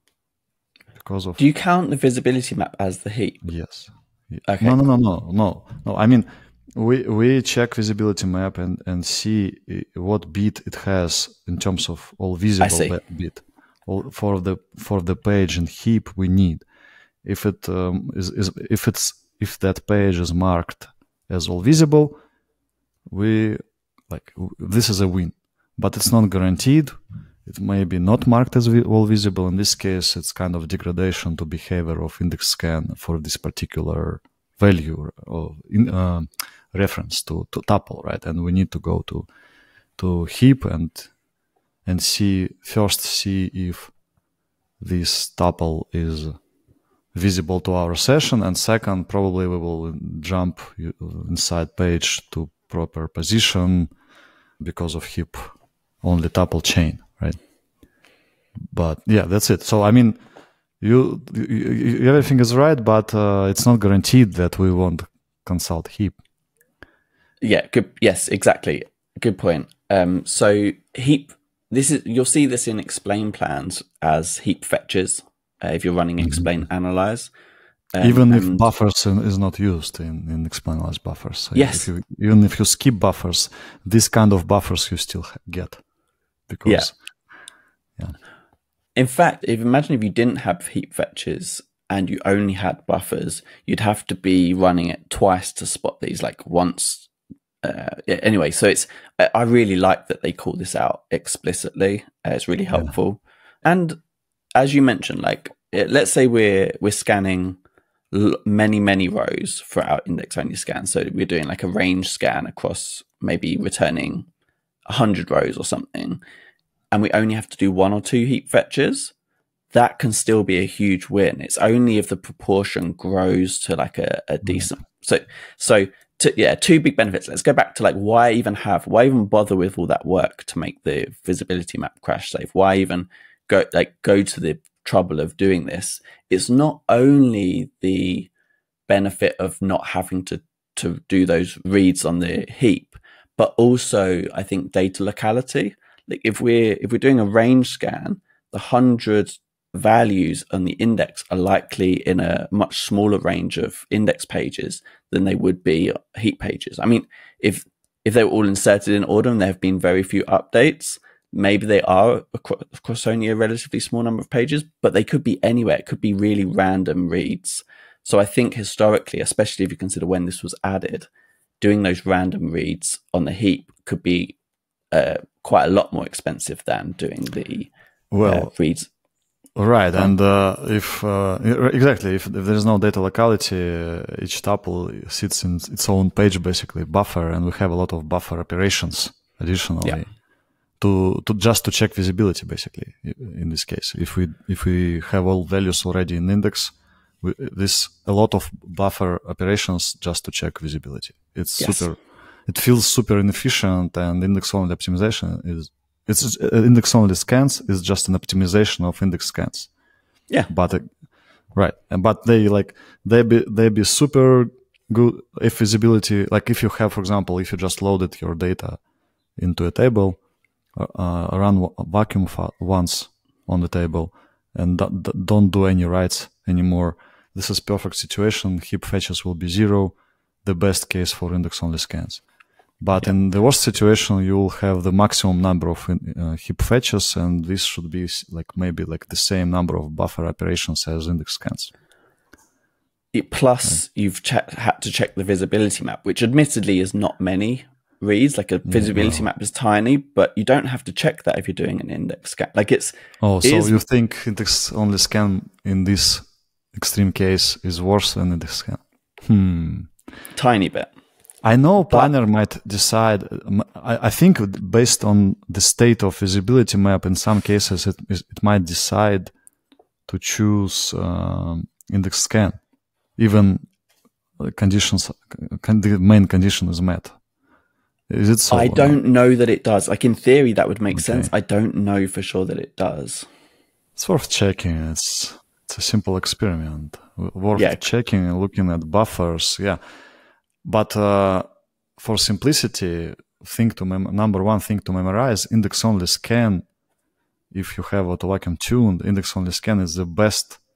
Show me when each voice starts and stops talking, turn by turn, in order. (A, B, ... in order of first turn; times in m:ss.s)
0:01.0-0:01.4 A
0:01.4-0:03.4 B
0:03.4-0:16.6 A
0:04.4-0:04.7 B
0:12.6-0:13.0 B
0:17.2-0:22.2 A
0:23.1-0:39.3 A
0:40.0-0:41.1 A
0:41.8-0:43.9 A
0:44.8-0:46.4 A
0:47.1-0:53.9 A
0:54.6-0:57.4 A
0:58.7-1:00.2 A
1:00.8-1:06.2 A
1:07.4-1:17.3 B
1:17.9-1:18.6 B
1:18.0-1:25.8 A
1:21.5-1:21.9 B
1:26.5-1:26.9 A
1:29.0-1:37.1 B
1:37.6-1:44.0 B
1:44.5-1:47.6 B
1:48.1-1:54.3 B
1:54.8-1:56.2 B
1:56.9-1:59.1 B
1:59.7-2:18.3 B
2:18.9-2:51.1 B
2:51.6-2:54.4 B
2:54.9-2:57.7 B
2:58.1-2:58.5 A
2:58.2-2:58.9 B
2:59.6-3:10.1 A
3:10.8-3:29.7 A
3:21.6-3:21.8 B
3:30.5-3:30.9 A
3:31.5-3:38.8 A
3:39.4-3:40.2 A
3:40.8-3:52.2 A
3:52.8-4:01.7 A
4:03.1-4:13.8 B
4:08.6-4:09.2 A
4:13.2-4:19.9 A
4:20.3-4:20.9 B
4:21.4-4:29.3 A
4:21.8-4:22.1 B
4:30.1-4:32.6 A
4:33.2-4:33.7 A
4:34.4-4:37.2 A
4:38.1-4:39.0 A
4:38.5-4:43.3 B
4:40.9-4:41.3 A
4:44.0-4:49.8 A
4:47.6-4:47.8 B
4:50.6-4:56.6 A
4:57.5-5:00.6 A